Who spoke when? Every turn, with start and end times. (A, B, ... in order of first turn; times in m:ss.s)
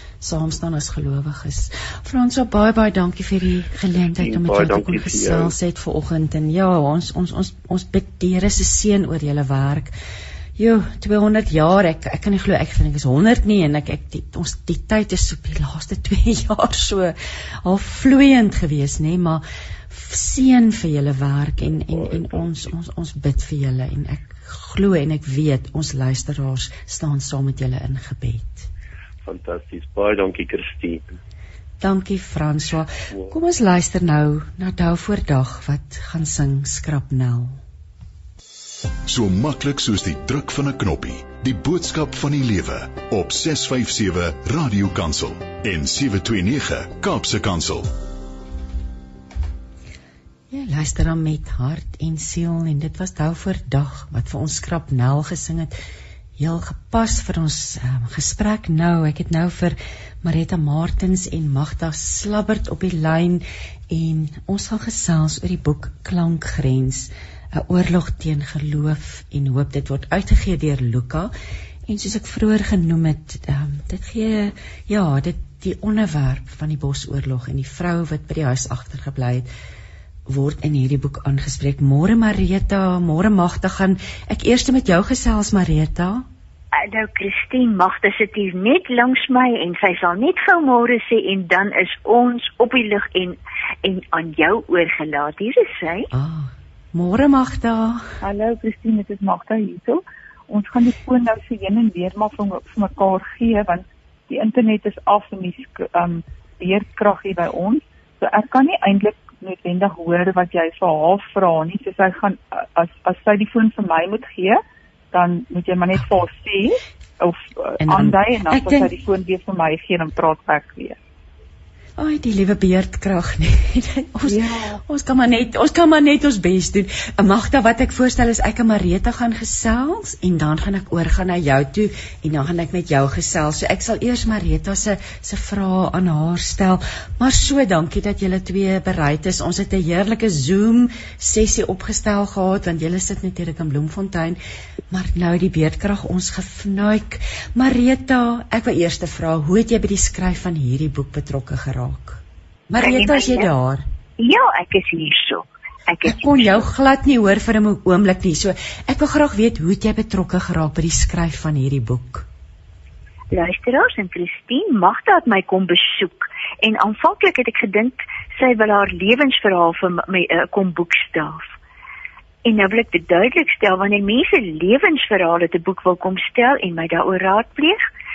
0:00.2-0:09.9 A
0:04.2-0:05.6 B
0:10.6-0:28.7 A
0:21.9-0:22.7 B
0:29.2-0:31.1 B
0:31.8-0:37.6 A
0:33.1-0:33.4 B
0:39.0-0:47.9 C
0:50.5-0:55.7 A
0:56.4-1:11.3 A
1:11.9-1:19.5 A
1:20.3-1:26.2 A
1:26.9-1:36.1 D
1:36.1-1:38.2 A
1:38.2-1:54.6 E
1:55.1-2:01.0 E
1:57.8-1:58.9 A
2:02.0-2:33.8 A
2:04.3-2:04.8 E
2:32.8-2:33.5 D
2:34.2-2:36.6 D
2:36.0-2:42.3 A
2:43.3-2:51.5 D
2:52.4-2:57.9 D